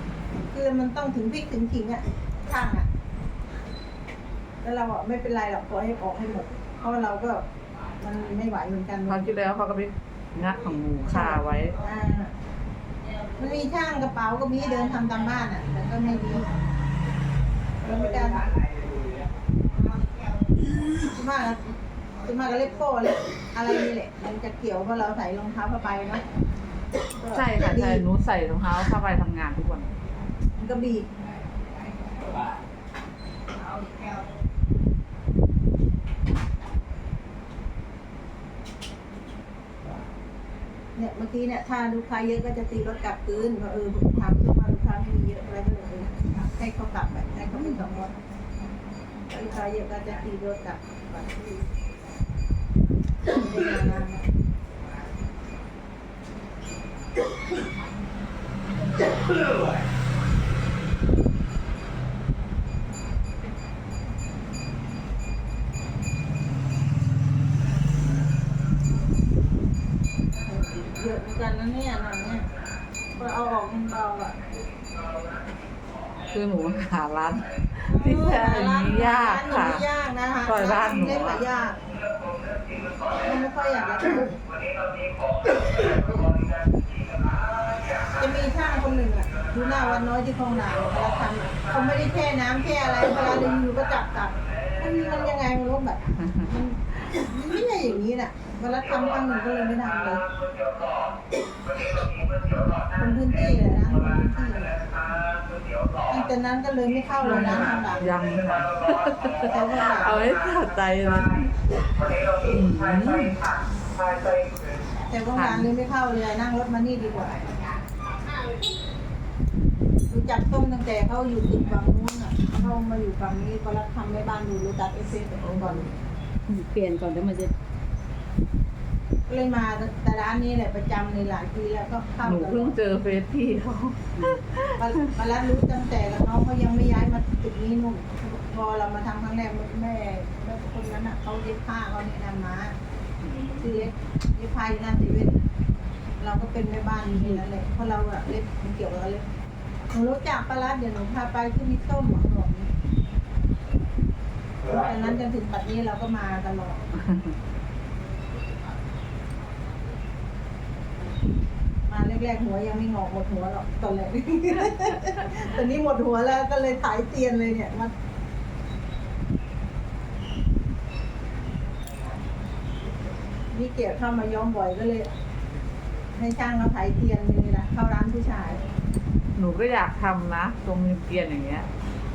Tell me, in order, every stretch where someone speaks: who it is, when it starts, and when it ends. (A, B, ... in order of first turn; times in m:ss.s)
0:00.5-0:02.9 A
0:04.6-0:07.4 A
0:08.0-0:09.3 A
0:09.1-0:11.8 B
0:11.1-0:12.3 A
0:13.4-0:16.5 A
0:17.8-0:18.5 A
0:21.0-0:21.7 A
0:22.2-0:26.2 A
0:27.2-0:28.0 A
0:27.3-0:29.9 B
0:30.6-0:31.1 A
0:41.0-0:48.1 A
0:49.3-0:51.7 A
0:53.3-0:54.2 A
1:10.5-1:12.5 A
1:13.2-1:14.4 A
1:16.3-1:19.9 B
1:17.9-1:21.8 A
1:20.5-1:21.4 B
1:23.2-1:24.4 A
1:28.2-1:40.3 A
1:42.9-1:44.9 A
1:46.1-1:48.2 A
1:47.2-1:51.5 B
1:49.4-1:50.4 A
1:52.5-1:53.4 C
1:52.6-1:53.1 B
1:55.1-1:57.4 A
1:55.3-1:55.7 B
2:00.1-2:05.9 A
2:05.4-2:05.9 B
2:06.5-2:07.5 C
2:09.3-2:12.8 A
2:12.2-2:14.8 B
2:14.8-2:22.8 A
2:23.2-2:23.6 B
2:23.6-2:25.4 A
2:26.2-2:29.2 A
2:27.1-2:27.4 C
2:29.9-2:32.7 A
2:34.6-2:36.8 A
2:37.1-2:37.3 B
2:41.9-2:47.9 A
2:53.5-2:55.1 A
2:56.2-2:58.6 A
2:59.4-3:01.7 B